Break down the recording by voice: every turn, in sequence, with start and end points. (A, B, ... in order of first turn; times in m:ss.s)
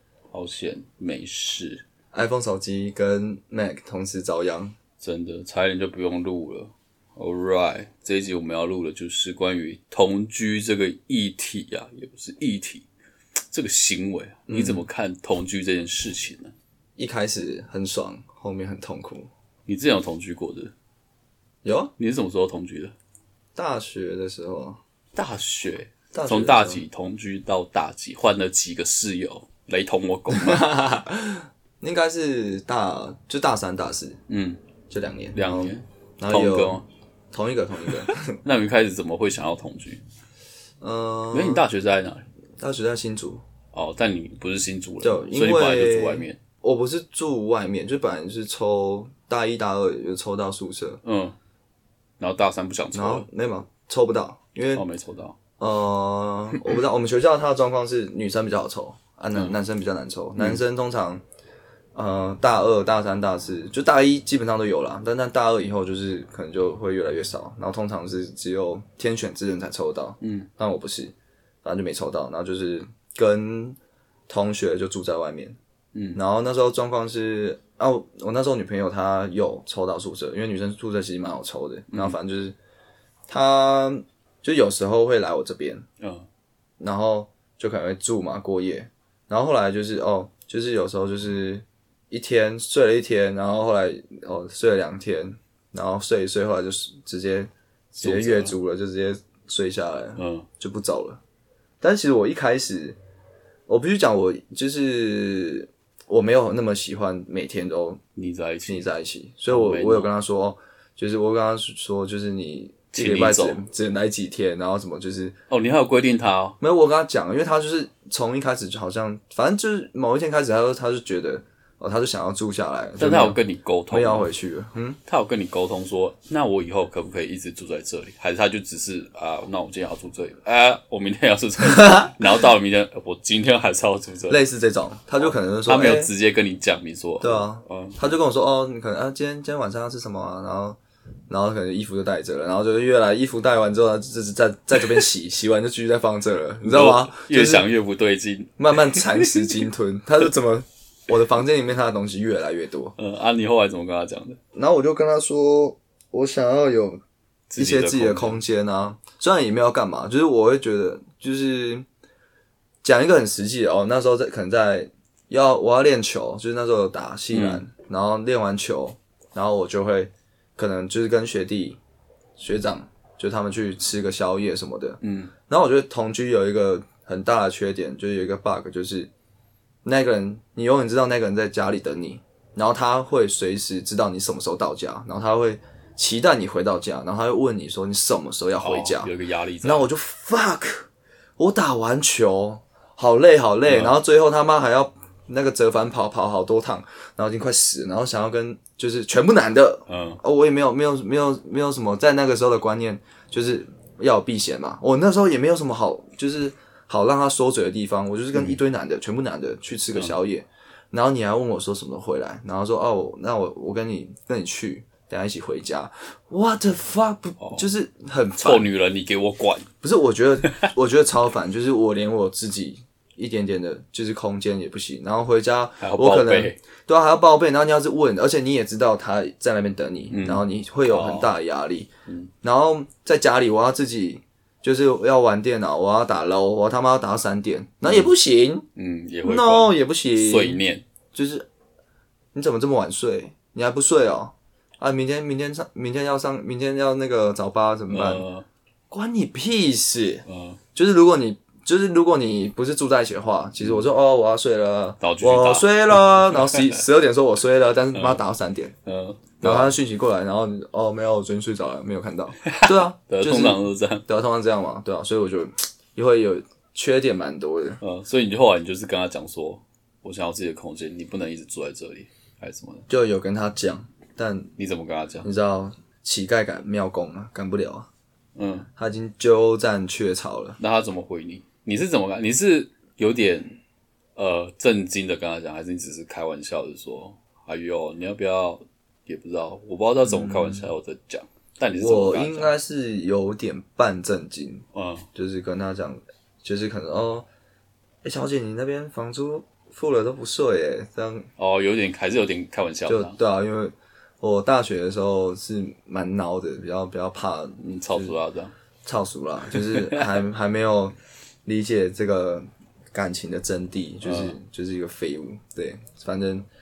0:00.3-0:01.8 A
0:02.1-0:04.7 B
0:05.0-0:12.8 A
0:13.5-0:16.5 A
0:14.5-0:14.8 B
0:17.0-0:19.3 B
0:19.7-0:20.7 A
0:21.6-0:21.9 B
0:22.0-0:22.9 A
0:23.5-0:24.8 B
0:25.2-0:30.7 A
0:26.1-0:26.8 B
0:30.3-0:34.2 B
0:34.3-0:34.6 A
0:34.9-0:36.8 B
0:35.3-0:36.8 A
0:37.3-0:38.4 B
0:38.0-0:40.0 A
0:40.8-0:41.6 B
0:41.3-0:42.2 A
0:42.6-0:43.4 B
0:43.7-0:46.4 A
0:45.0-0:51.0 B
0:51.0-0:51.4 A
0:52.2-0:53.3 A
0:52.9-0:54.8 B
0:54.7-0:55.4 A
0:55.6-1:01.2 B
1:01.9-1:13.8 B
1:10.2-1:10.5 A
1:14.3-1:15.6 B
1:15.9-1:16.2 A
1:16.1-1:22.6 B
1:21.9-1:22.2 A
1:23.3-1:25.8 B
1:26.0-1:26.3 A
1:26.8-1:41.2 B
1:38.0-1:38.5 A
1:40.2-1:40.5 A
1:41.8-1:43.0 B
1:43.7-1:48.0 B
1:48.2-1:48.9 A
1:48.7-1:55.4 B
1:49.5-1:50.1 A
1:52.9-1:53.6 A
1:55.5-1:56.6 A
1:56.6-2:05.0 B
2:03.0-2:04.3 A
2:05.0-2:14.4 A
2:11.6-2:12.2 B
2:14.3-2:16.1 B
2:15.2-2:18.0 A
2:17.2-2:20.8 B
2:21.3-2:27.7 B
2:26.6-2:29.6 A
2:28.6-2:32.9 B
2:33.0-2:34.4 A
2:34.5-2:37.0 B
2:37.5-2:38.4 A
2:37.6-2:41.8 B
2:42.8-2:51.8 B
2:47.3-2:47.6 A
2:52.4-2:59.1 B
2:55.0-2:55.3 A
2:59.8-3:38.7 B
3:08.6-3:09.9 A
3:13.7-3:14.0 A
3:19.9-3:20.2 A
3:29.9-3:30.2 A
3:37.4-3:37.7 A
3:38.4-3:39.7 A
3:39.8-3:51.9 B
3:40.4-3:40.7 A
3:45.8-3:46.6 A
3:50.1-3:51.3 A
3:52.1-3:52.3 A
3:52.4-3:58.6 B
3:57.8-3:58.1 A
3:58.7-4:00.8 A
3:59.2-4:00.6 B
4:01.1-4:01.4 B
4:02.3-4:08.2 B
4:07.9-4:08.4 A
4:08.9-4:18.7 B
4:10.2-4:10.6 A
4:15.0-4:16.8 A
4:17.9-4:18.2 A
4:18.8-4:19.7 A
4:19.4-4:27.8 B
4:22.4-4:24.0 A
4:27.8-4:32.9 A
4:32.9-4:34.5 B
4:34.6-4:35.3 A
4:35.2-4:37.9 B
4:38.4-4:38.7 A
4:38.8-4:40.6 B
4:40.6-4:43.6 A
4:44.2-4:52.5 A
4:50.0-4:50.7 B
4:51.7-4:57.3 B
4:54.7-4:55.1 A
4:58.0-5:01.3 B
5:01.4-5:03.2 A
5:02.8-5:08.1 B
5:07.6-5:08.5 A
5:08.8-5:16.5 B
5:09.5-5:10.2 A
5:14.0-5:14.4 A